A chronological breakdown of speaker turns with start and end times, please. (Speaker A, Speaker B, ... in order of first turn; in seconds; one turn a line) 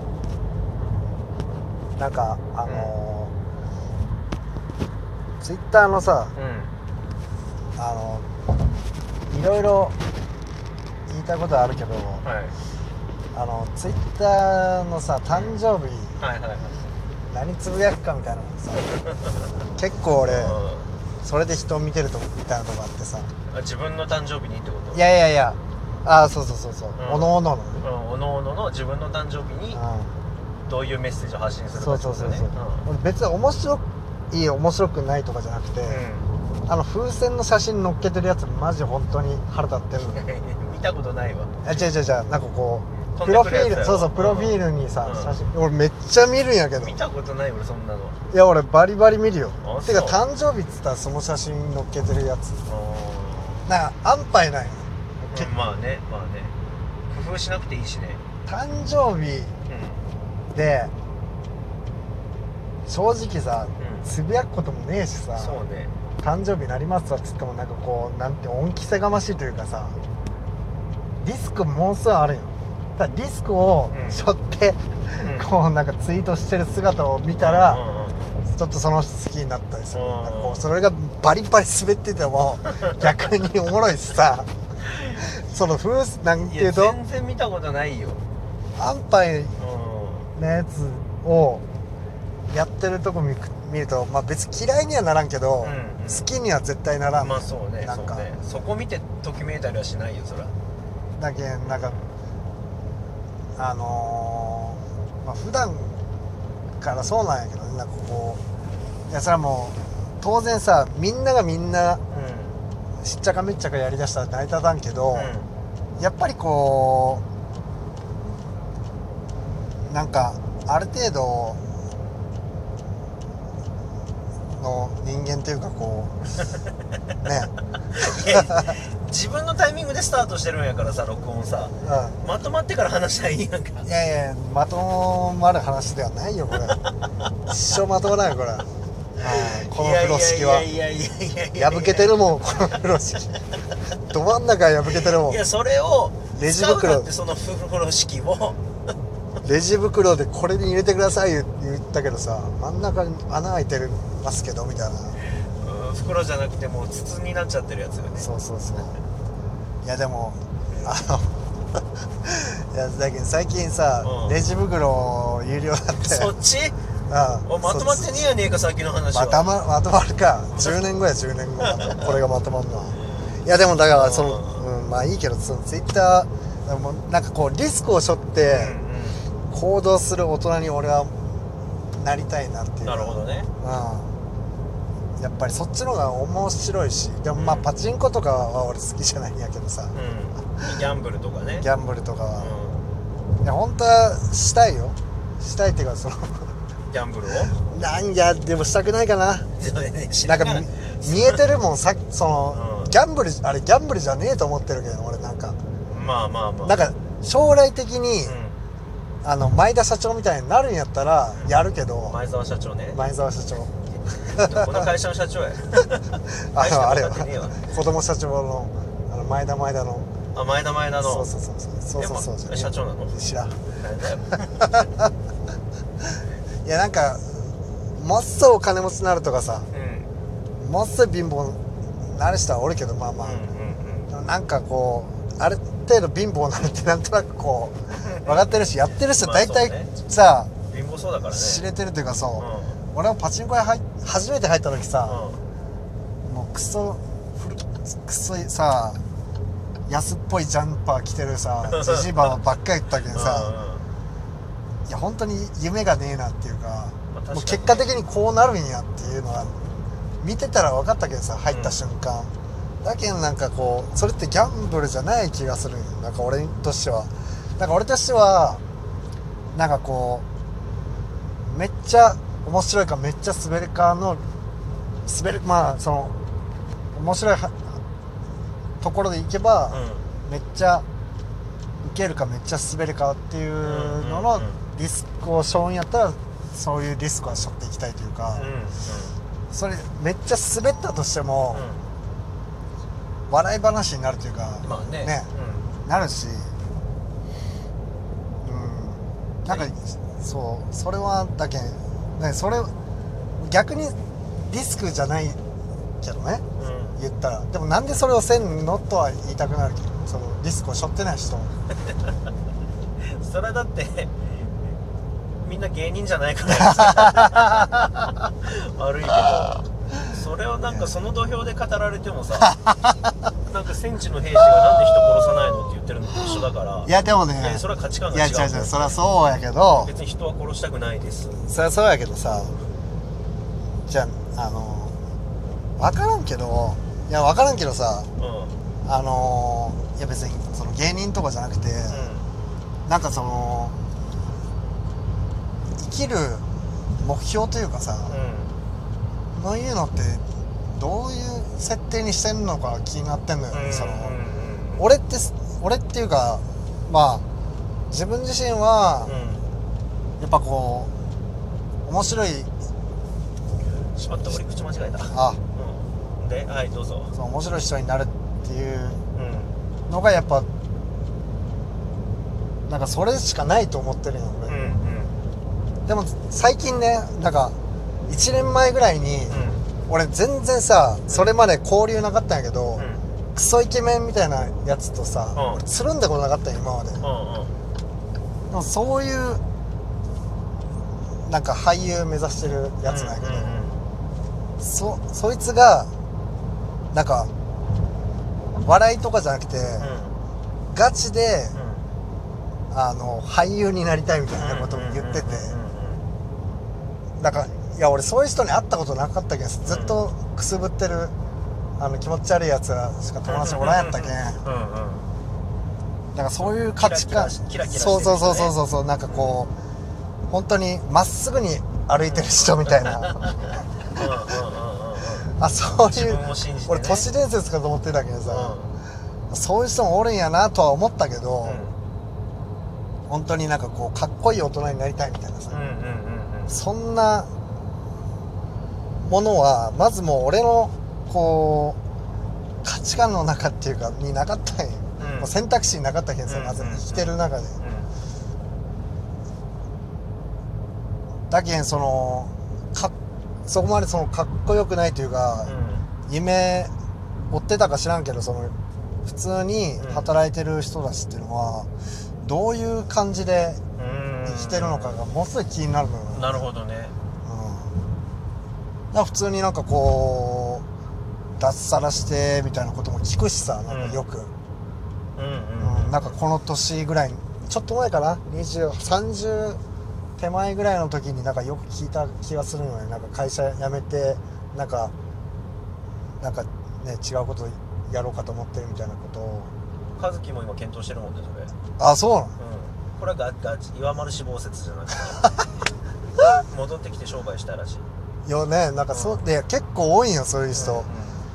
Speaker A: 2.0-3.3
Speaker B: 2.6-2.9
Speaker A: 5.4-6.3
Speaker B: 6.3-6.7
Speaker A: 7.8-8.3
Speaker A: 9.3-9.9
Speaker A: 11.1-12.2
Speaker B: 12.2-12.5
Speaker A: 13.3-16.2
Speaker B: 15.3-15.6
Speaker B: 16.2-16.9
Speaker A: 17.3-18.9
Speaker B: 18.9-19.3
Speaker A: 19.8-20.6
Speaker B: 20.2-20.9
Speaker A: 21.2-23.3
Speaker B: 23.5-25.0
Speaker A: 24.9-27.8
Speaker B: 27.0-29.8
Speaker A: 29.7-30.1
Speaker B: 30.6-32.9
Speaker A: 31.7-36.0
Speaker B: 35.8-36.3
Speaker A: 36.7-40.2
Speaker B: 40.1-41.8
Speaker A: 41.6-47.0
Speaker B: 43.1-45.4
Speaker B: 46.8-48.2
Speaker A: 48.3-52.6
Speaker B: 49.6-50.2
Speaker B: 52.6-53.7
Speaker A: 53.6-55.5
Speaker B: 55.3-56.5
Speaker B: 57.1-58.2
Speaker A: 58.5-59.5
Speaker B: 59.7-60.0
Speaker A: 60.5-60.9
Speaker A: 62.9-65.6
Speaker B: 63.8-64.1
Speaker B: 65.3-65.9
Speaker A: 66.2-70.0
Speaker A: 71.2-77.8
Speaker B: 73.9-74.2
Speaker B: 75.2-75.5
Speaker B: 77.4-78.4
Speaker A: 78.5-84.5
Speaker B: 79.9-80.7
Speaker A: 85.2-87.0
Speaker B: 86.4-88.2
Speaker A: 88.8-89.5
Speaker B: 89.6-90.3
Speaker A: 90.3-91.6
Speaker A: 92.5-98.4
Speaker B: 95.6-96.3
Speaker B: 97.2-100.5
Speaker A: 101.2-102.0
Speaker B: 101.6-102.1
Speaker A: 103.6-105.9
Speaker A: 106.8-108.4
Speaker A: 109.1-112.0
Speaker B: 112.1-112.6
Speaker A: 113.0-115.3
Speaker B: 115.1-115.5
Speaker A: 116.0-117.2
Speaker A: 119.8-121.6
Speaker A: 124.6-126.2
Speaker A: 127.2-127.5
Speaker B: 127.9-133.9
Speaker A: 128.3-128.6
Speaker A: 131.8-132.2
Speaker A: 133.8-136.8
Speaker A: 137.5-138.7
Speaker A: 139.2-140.7
Speaker B: 139.3-142.2
Speaker A: 141.6-143.3
Speaker A: 144.1-145.4
Speaker B: 145.0-148.6
Speaker A: 146.3-147.1
Speaker A: 149.4-155.2
Speaker B: 155.4-158.3
Speaker A: 158.2-159.0
Speaker A: 159.8-161.4
Speaker B: 160.7-161.0
Speaker A: 162.2-166.3
Speaker B: 164.0-164.4
Speaker B: 166.0-166.8
Speaker A: 167.1-168.3
Speaker B: 167.4-169.5
Speaker A: 169.1-178.8
Speaker B: 171.6-172.1
Speaker B: 173.9-174.6
Speaker B: 178.4-179.2
Speaker A: 179.5-181.2
Speaker A: 181.9-184.1
Speaker B: 182.8-183.5
Speaker A: 185.2-189.9
Speaker B: 187.3-187.7
Speaker B: 189.9-191.7
Speaker A: 191.6-192.5
Speaker B: 192.4-192.9
Speaker A: 193.4-196.5
Speaker B: 196.9-197.5
Speaker A: 197.6-199.5
Speaker B: 199.6-201.4
Speaker A: 200.2-205.6
Speaker B: 202.5-202.9
Speaker B: 205.9-206.9
Speaker A: 206.6-208.3
Speaker B: 208.2-208.6
Speaker A: 209.2-212.2
Speaker B: 212.0-213.0
Speaker A: 212.9-213.8
Speaker B: 214.1-216.0
Speaker A: 214.3-214.8
Speaker A: 216.4-220.1
Speaker B: 216.5-217.6
Speaker B: 220.3-221.3
Speaker A: 221.0-223.6
Speaker B: 222.0-223.1
Speaker B: 223.7-224.5
Speaker A: 224.3-225.0
Speaker A: 226.6-229.7
Speaker B: 229.7-230.1
Speaker A: 230.6-233.5
Speaker B: 233.2-234.1
Speaker A: 234.1-240.5
Speaker B: 238.1-238.4
Speaker B: 239.2-239.9
Speaker B: 240.7-241.6
Speaker A: 241.2-245.2
Speaker B: 242.4-242.8
Speaker B: 245.0-245.4
Speaker A: 246.2-249.0
Speaker A: 249.9-253.5
Speaker B: 251.7-252.3
Speaker B: 253.1-253.8
Speaker A: 254.9-262.3
Speaker B: 257.1-257.9
Speaker B: 261.5-261.8
Speaker A: 262.8-268.6
Speaker A: 269.5-270.2
Speaker A: 271.4-274.2
Speaker A: 275.1-276.1
Speaker A: 276.9-277.8
Speaker A: 278.8-280.8
Speaker B: 279.7-280.1
Speaker A: 281.8-288.5
Speaker B: 283.6-284.6
Speaker B: 288.3-289.2
Speaker A: 289.5-291.7
Speaker B: 291.5-291.9
Speaker A: 293.3-295.3
Speaker B: 294.6-295.7
Speaker A: 295.8-296.5
Speaker A: 298.4-302.7
Speaker A: 303.4-303.9
Speaker A: 304.5-305.4
Speaker A: 306.0-306.4
Speaker B: 306.6-307.0
Speaker A: 306.9-311.5
Speaker B: 313.0-314.2
Speaker B: 315.4-322.5
Speaker A: 317.0-317.2
Speaker A: 322.4-323.1
Speaker B: 323.5-329.0
Speaker A: 326.8-329.9
Speaker B: 329.8-331.5
Speaker A: 331.4-332.5
Speaker B: 332.3-332.7
Speaker A: 333.9-334.9
Speaker A: 335.8-338.1
Speaker B: 338.2-338.6
Speaker A: 338.8-342.1
Speaker B: 341.9-342.3
Speaker A: 342.9-343.7
Speaker A: 345.8-346.4
Speaker A: 347.0-348.2
Speaker B: 348.1-348.6
Speaker A: 349.3-354.2
Speaker B: 353.5-354.8
Speaker A: 354.8-357.2
Speaker A: 357.9-359.1
Speaker B: 359.0-359.5
Speaker A: 360.2-360.9
Speaker A: 361.9-362.5
Speaker B: 363.9-367.1
Speaker A: 365.1-365.4
Speaker A: 367.1-369.0
Speaker B: 369.1-369.5
Speaker A: 369.9-370.5
Speaker A: 372.7-374.6
Speaker B: 374.4-375.2
Speaker A: 375.9-377.5
Speaker A: 378.1-387.0
Speaker B: 379.3-379.6
Speaker B: 381.1-381.3
Speaker B: 382.8-383.0
Speaker B: 385.3-385.6
Speaker B: 387.0-387.6
Speaker A: 388.5-389.4
Speaker A: 391.2-393.7
Speaker B: 392.8-393.8
Speaker A: 394.6-395.9
Speaker A: 396.9-397.3
Speaker A: 398.6-399.9
Speaker B: 399.8-400.2
Speaker A: 400.7-401.6
Speaker B: 401.5-401.9
Speaker A: 402.7-405.6
Speaker B: 404.4-406.1
Speaker A: 407.2-411.1
Speaker B: 409.6-410.0
Speaker A: 411.8-414.4
Speaker B: 413.3-415.1
Speaker A: 416.1-419.5
Speaker B: 416.4-418.5
Speaker B: 419.1-419.4
Speaker A: 420.3-424.2
Speaker B: 422.0-423.1
Speaker B: 423.9-425.3
Speaker A: 425.4-428.6
Speaker B: 425.9-427.1
Speaker B: 428.3-428.7
Speaker A: 429.3-431.6
Speaker B: 431.4-431.8
Speaker A: 433.1-435.6
Speaker B: 435.5-436.6
Speaker A: 436.5-437.3
Speaker A: 439.0-441.8
Speaker A: 442.6-447.6
Speaker B: 445.0-445.3
Speaker B: 446.3-447.9
Speaker A: 451.3-452.9
Speaker A: 453.5-455.5
Speaker B: 455.4-455.9
Speaker A: 456.1-456.7
Speaker A: 457.3-458.5
Speaker A: 459.1-461.7
Speaker B: 459.8-460.1
Speaker A: 462.2-463.6
Speaker B: 463.8-465.0
Speaker A: 464.2-466.4
Speaker B: 466.1-466.9
Speaker A: 467.2-467.7
Speaker A: 468.9-470.6
Speaker A: 471.4-474.3
Speaker B: 473.7-474.0
Speaker B: 475.1-476.2
Speaker A: 475.6-479.6
Speaker A: 480.2-484.9
Speaker A: 486.2-489.5
Speaker B: 489.9-491.5
Speaker A: 491.8-492.4
Speaker B: 492.4-495.3
Speaker B: 496.4-497.9
Speaker A: 498.2-500.9
Speaker B: 498.9-499.2
Speaker B: 500.5-501.2